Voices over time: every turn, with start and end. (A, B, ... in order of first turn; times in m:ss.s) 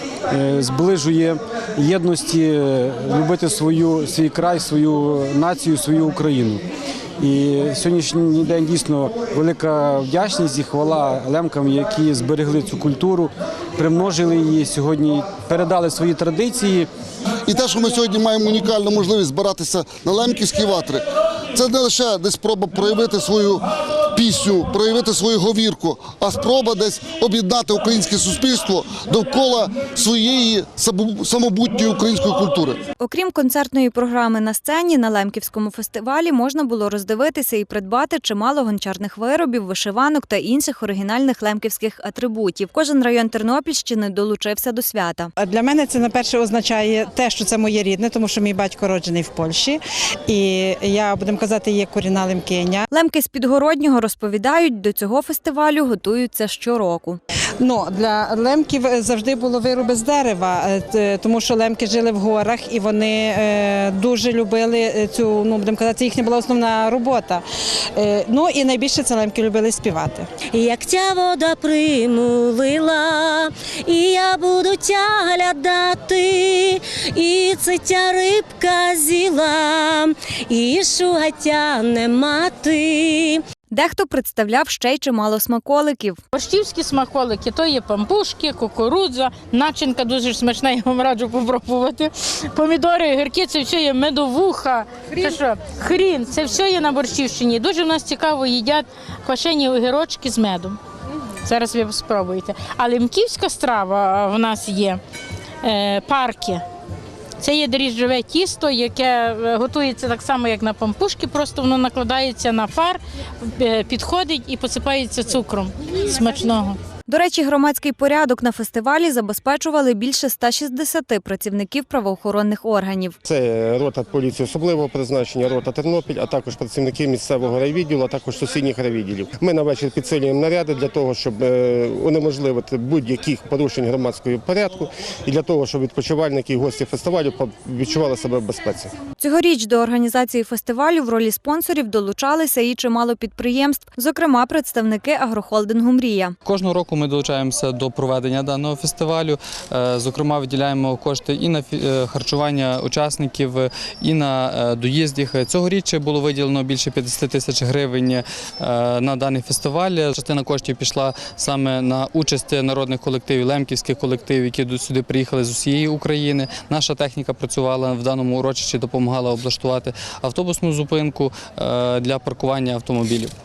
0:00.3-0:06.7 A
0:07.2-0:16.9 A
0:17.5-0:32.8 B
0:33.0-0:45.3 C
0:45.4-0:52.9 D
0:52.9-0:57.2 C
0:57.6-1:10.3 D
1:10.5-1:23.4 E
1:23.7-1:26.2 C
1:26.4-1:40.8 F
1:41.4-1:45.0 F
1:45.6-1:46.6 F
1:47.4-1:53.0 F
1:53.6-1:56.8 F
1:57.1-2:03.2 C
2:03.2-2:18.9 G
2:19.2-2:26.4 C
2:26.4-2:53.3 H